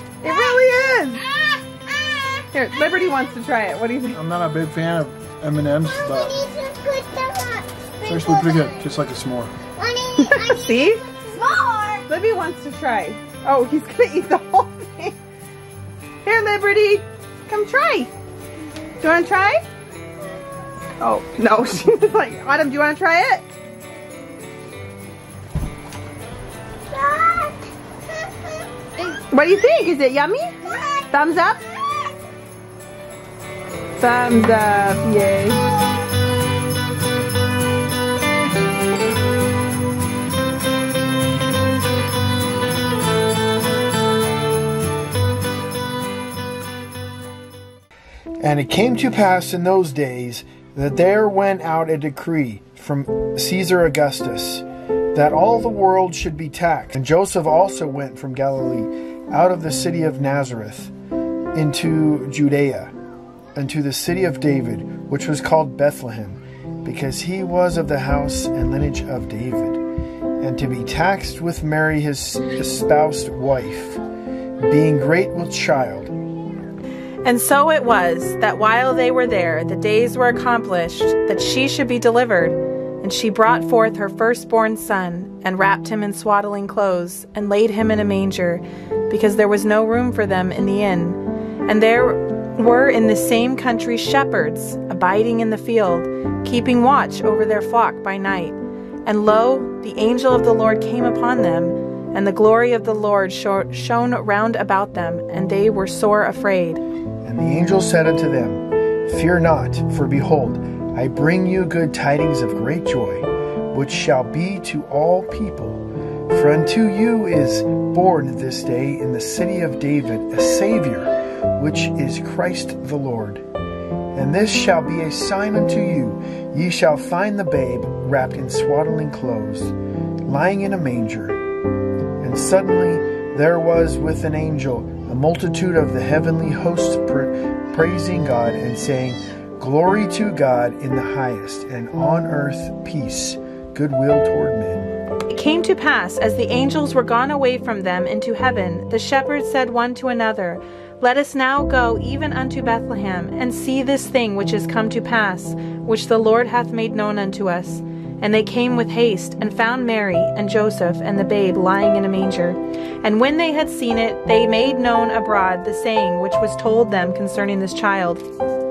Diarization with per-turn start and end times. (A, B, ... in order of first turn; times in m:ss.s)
0:00.2-0:01.2 A
0:00.2-0:03.3 B
0:02.6-0:04.2 A
0:04.1-0:06.4 C
0:05.8-0:08.8 B
0:08.0-0:09.5 C
0:09.8-0:12.0 B
0:10.2-0:11.0 A
0:12.1-0:15.1 A
0:16.2-0:18.1 A
0:19.0-0:19.6 A
0:21.0-0:23.4 A
0:26.9-0:27.6 B
0:29.3-0:30.5 A
0:31.1-0:31.6 A
0:34.0-0:35.6 A
0:48.4-1:00.9 D
1:01.5-1:02.9 D
1:03.5-1:09.8 D
1:10.4-1:14.0 D
1:14.6-1:16.1 D
1:17.2-1:46.8 E
1:47.2-2:03.4 D
2:04.1-2:11.4 D
2:12.2-2:24.9 D
2:25.3-2:48.2 E